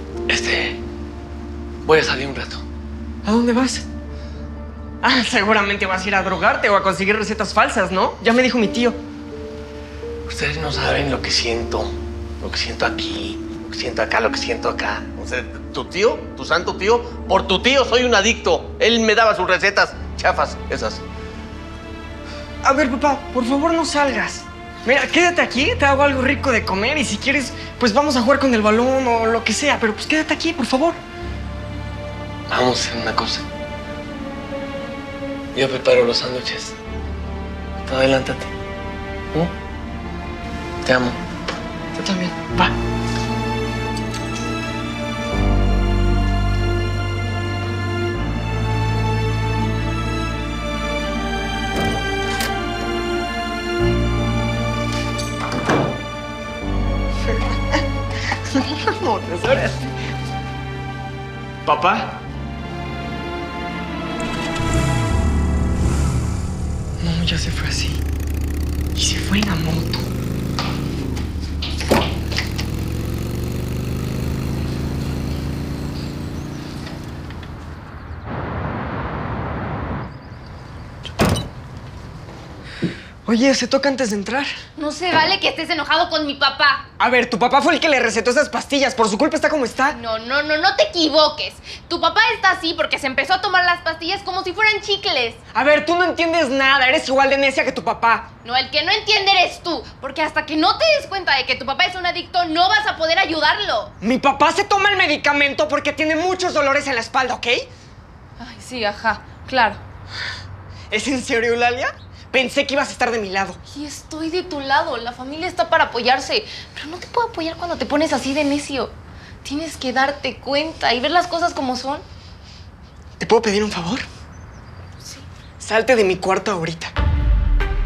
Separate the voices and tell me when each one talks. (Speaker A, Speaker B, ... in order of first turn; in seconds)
Speaker A: 0.3-0.8, 1.9-2.6, 10.3-21.0, 32.5-33.5, 35.5-36.8, 37.8-38.5, 40.8-41.2
Speaker B: 3.2-3.9, 5.0-9.0, 22.6-31.0, 42.0-42.7, 57.2-57.8, 58.5-59.9, 61.6-62.2, 67.0-68.0, 69.0-70.1, 83.3-84.6, 87.0-90.0, 95.5-98.3, 104.0-107.7, 110.9-113.6, 123.2-124.1, 125.6-126.9
Speaker C: 84.8-86.9, 89.9-95.4, 98.4-103.9, 108.4-109.8, 113.7-122.0